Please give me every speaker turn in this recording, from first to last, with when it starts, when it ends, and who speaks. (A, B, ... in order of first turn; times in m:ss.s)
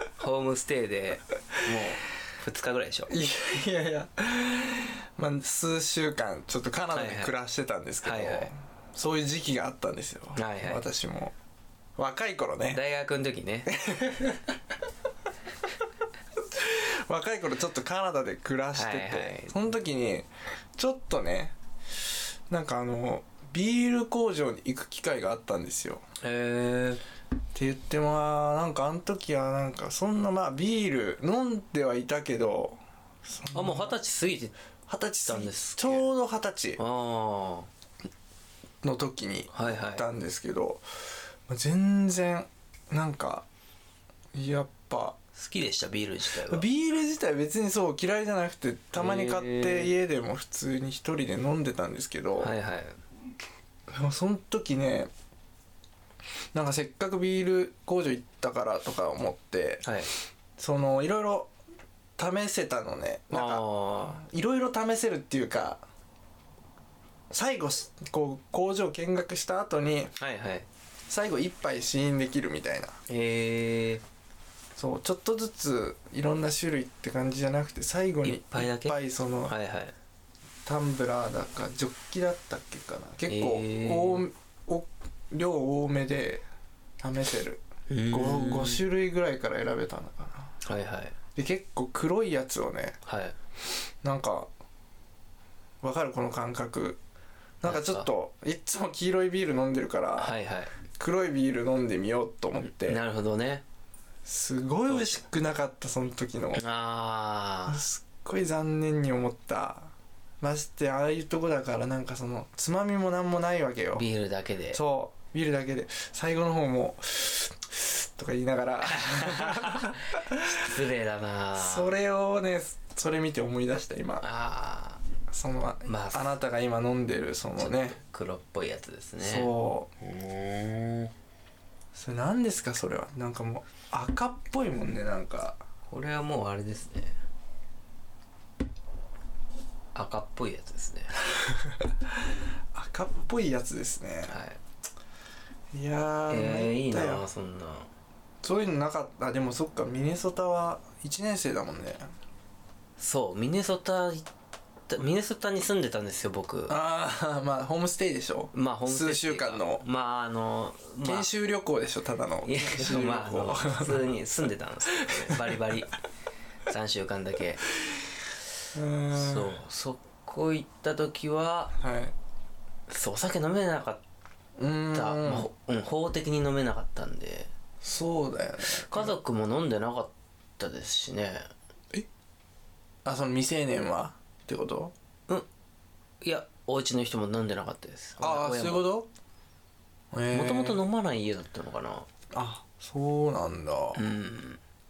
0:00.2-0:03.1 A
0:03.1-0:11.3 B
0:06.9-0:07.3 A
0:08.0-0:08.5 A
0:10.4-0:10.8 A
0:12.0-0:12.8 B
0:12.7-0:13.7 A
0:13.7-0:14.6 B
0:16.5-0:21.6 B
0:18.7-0:19.6 A
0:22.5-0:26.0 B
0:26.2-0:27.0 A
0:27.5-0:33.9 B
0:33.5-0:34.5 A
0:34.9-0:36.8 B
0:35.2-0:36.1 A
0:36.8-0:37.7 A
0:38.8-0:40.8 B
0:39.5-0:40.0 A
0:41.5-0:43.4 B
0:44.3-0:45.2 B
0:45.4-0:46.7 A
0:46.4-0:52.5 B
0:48.9-0:49.9 A
0:52.4-0:53.0 A
0:53.9-0:55.1 B
0:56.5-0:59.8 B
0:59.8-1:00.1 A
1:00.6-1:01.5 B
1:02.2-1:05.8 B
1:03.3-1:04.2 A
1:07.3-1:10.2 B
1:10.2-1:10.6 A
1:11.1-1:12.9 B
1:13.1-1:14.0 A
1:14.8-1:19.5 B
1:18.2-1:19.9 A
1:20.6-1:26.4 B
1:23.3-1:24.2 A
1:27.0-1:30.5 B
1:27.9-1:28.8 A
1:30.6-1:31.1 A
1:31.4-1:33.0 B
1:33.0-1:33.3 A
1:34.0-1:34.5 B
1:35.8-1:37.0 B
1:37.6-1:40.3 B
1:37.6-1:38.1 A
1:40.2-1:40.7 A
1:41.0-1:43.0 B
1:42.6-1:43.6 A
1:44.2-1:46.6 B
1:44.9-1:45.2 A
1:46.6-1:47.8 A
1:47.7-1:54.0 B
1:53.9-1:54.8 A
1:54.7-2:00.5 B
1:58.9-2:02.0 A
2:01.6-2:04.3 B
2:04.2-2:05.0 A
2:05.3-2:08.0 B
2:05.8-2:06.4 A
2:07.6-2:11.1 A
2:09.2-2:09.9 B
2:11.9-2:15.6 B
2:15.9-2:17.1 A
2:19.9-2:21.1 A
2:21.4-2:21.9 B
2:22.7-2:24.3 B
2:24.3-2:24.6 A
2:25.7-2:27.2 B
2:26.3-2:27.9 A
2:28.4-2:32.0 B
2:33.0-2:34.3 A
2:34.9-2:36.8 A
2:36.7-2:39.8 B
2:38.5-2:41.3 A
2:41.0-2:44.1 B
2:42.4-2:46.0 A
2:46.7-2:47.6 A
2:48.7-2:49.6 B
2:49.1-2:51.8 A
2:51.8-2:52.1 B
2:52.9-2:54.0 A
2:54.6-2:55.5 B
2:54.9-2:57.5 A
2:57.8-2:59.2 B
2:58.7-3:01.5 A
3:03.0-3:04.9 B
3:06.2-3:08.9 A
3:08.2-3:09.1 B
3:10.1-3:10.8 B
3:10.3-3:12.1 A
3:12.3-3:14.1 B
3:13.9-3:14.6 A